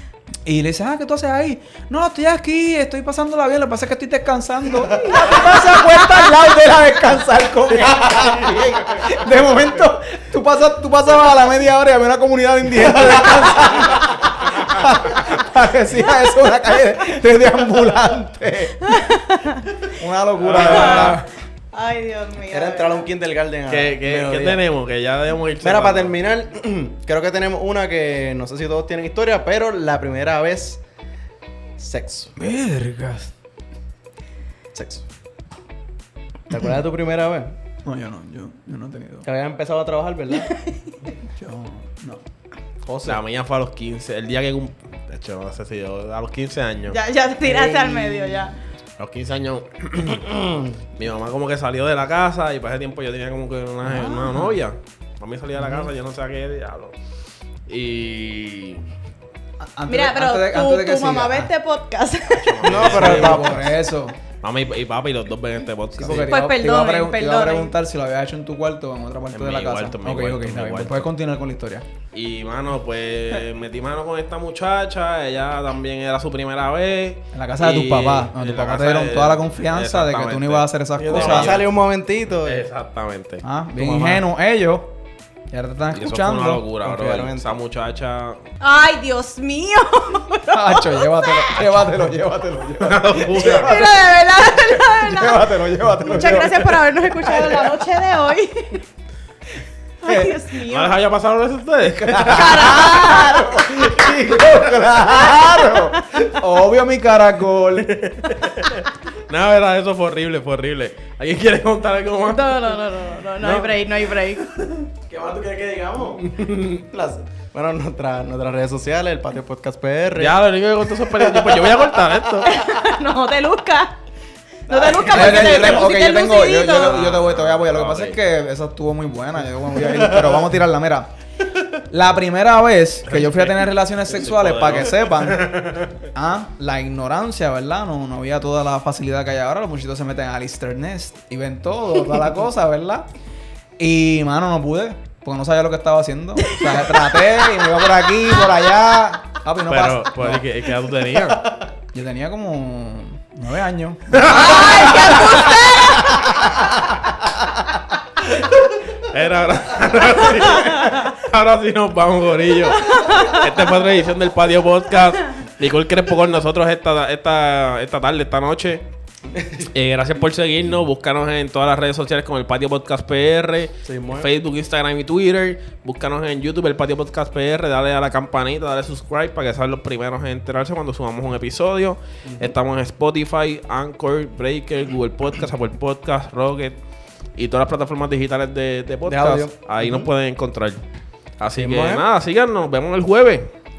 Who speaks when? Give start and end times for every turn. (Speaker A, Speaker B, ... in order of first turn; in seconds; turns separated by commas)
Speaker A: 0.5-18.9, Speaker B: 4.9-5.2, Speaker B: 13.1-13.4, Speaker C: 18.9-19.8, Speaker A: 19.9-21.3, Speaker D: 20.4-21.3, Speaker C: 20.6-21.2, Speaker C: 21.7-23.1, Speaker B: 22.5-24.6, Speaker D: 23.7-26.2, Speaker B: 25.6-30.8, Speaker B: 31.8-32.4, Speaker D: 32.4-33.3, Speaker B: 34.7-35.0, Speaker B: 36.5-37.5, Speaker A: 37.9-39.3, Speaker B: 39.2-40.5, Speaker C: 40.3-40.9, Speaker A: 41.4-42.2, Speaker B: 42.8-43.2, Speaker D: 43.0-47.0, Speaker C: 46.9-48.6, Speaker B: 47.4-48.5, Speaker D: 49.0-50.3, Speaker B: 50.1-50.8, Speaker D: 51.0-56.9, Speaker A: 53.8-54.6, Speaker A: 55.6-55.9, Speaker D: 57.7-58.8, Speaker A: 59.6-61.5, Speaker C: 59.9-62.8, Speaker D: 62.3-63.6, Speaker B: 62.6-63.7, Speaker A: 62.8-64.2, Speaker D: 64.4-66.3, Speaker A: 65.9-71.9, Speaker C: 66.1-67.8, Speaker D: 69.3-71.1, Speaker D: 72.1-81.8, Speaker A: 77.3-81.6, Speaker B: 81.0-82.7, Speaker D: 82.4-83.4, Speaker A: 83.4-84.9, Speaker B: 83.8-84.2, Speaker A: 85.5-86.6, Speaker D: 85.9-88.4, Speaker B: 86.8-87.6, Speaker C: 88.6-91.6, Speaker A: 90.5-93.9, Speaker D: 92.8-93.8, Speaker C: 93.4-98.8, Speaker A: 95.0-96.7, Speaker A: 100.0-100.3, Speaker C: 100.0-101.0, Speaker D: 100.7-103.0, Speaker A: 101.9-108.1, Speaker C: 102.2-103.9, Speaker C: 105.1-106.2, Speaker D: 107.8-112.8, Speaker C: 112.3-114.8, Speaker D: 113.4-113.8, Speaker B: 115.1-120.5, Speaker D: 116.3-116.8, Speaker D: 120.2-122.5, Speaker B: 121.2-121.5, Speaker C: 122.4-124.0, Speaker B: 124.7-125.8, Speaker C: 124.7-127.0, Speaker A: 125.1-131.1, Speaker D: 126.8-128.2, Speaker B: 129.9-130.3, Speaker A: 131.9-135.6, Speaker D: 133.1-135.9, Speaker A: 136.1-143.1, Speaker A: 143.8-150.4, Speaker C: 146.6-147.2, Speaker D: 149.7-151.5, Speaker A: 151.9-154.5, Speaker D: 154.1-155.7, Speaker C: 154.3-156.4, Speaker D: 158.9-168.8, Speaker C: 160.6-160.9, Speaker C: 162.7-163.5, Speaker B: 169.3-169.7, Speaker D: 169.7-186.8, Speaker B: 173.8-174.3, Speaker B: 182.2-182.5, Speaker D: 187.4-190.8, Speaker B: 189.1-190.1, Speaker D: 191.4-193.5, Speaker B: 191.6-192.1